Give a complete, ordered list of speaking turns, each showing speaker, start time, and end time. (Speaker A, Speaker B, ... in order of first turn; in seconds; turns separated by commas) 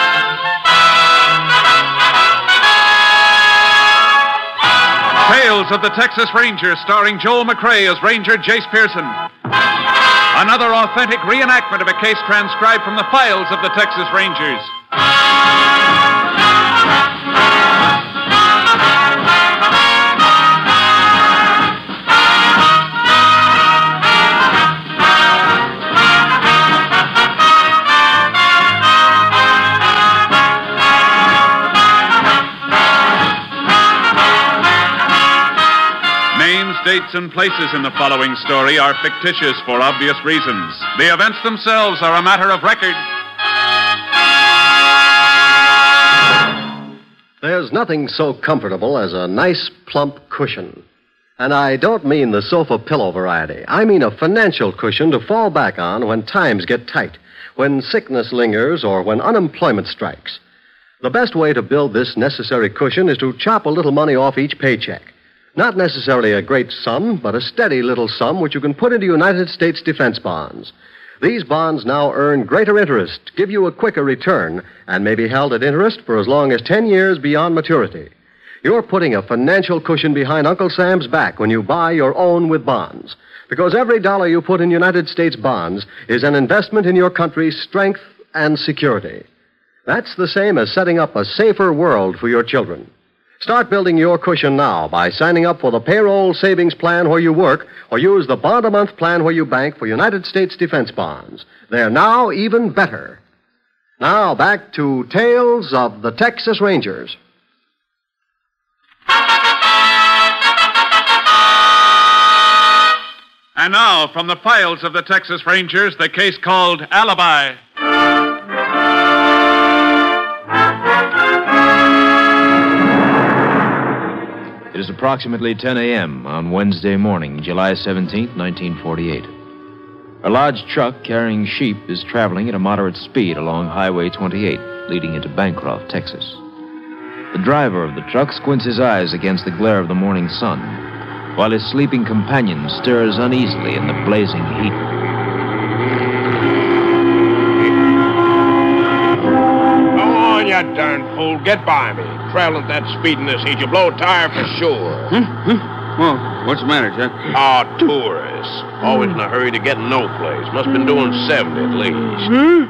Speaker A: 5.2-9.2, Speaker A: 10.3-14.7, Speaker A: 36.3-43.0, Speaker B: 47.4-50.8, Speaker B: 51.4-60.4, Speaker B: 61.0-78.1, Speaker B: 78.6-89.2, Speaker B: 89.8-103.2, Speaker B: 104.0-107.2, Speaker A: 113.5-117.6, Speaker C: 124.7-129.3, Speaker C: 130.2-136.4, Speaker C: 137.3-144.9, Speaker D: 149.9-155.1, Speaker E: 155.1-157.2, Speaker D: 157.3-162.3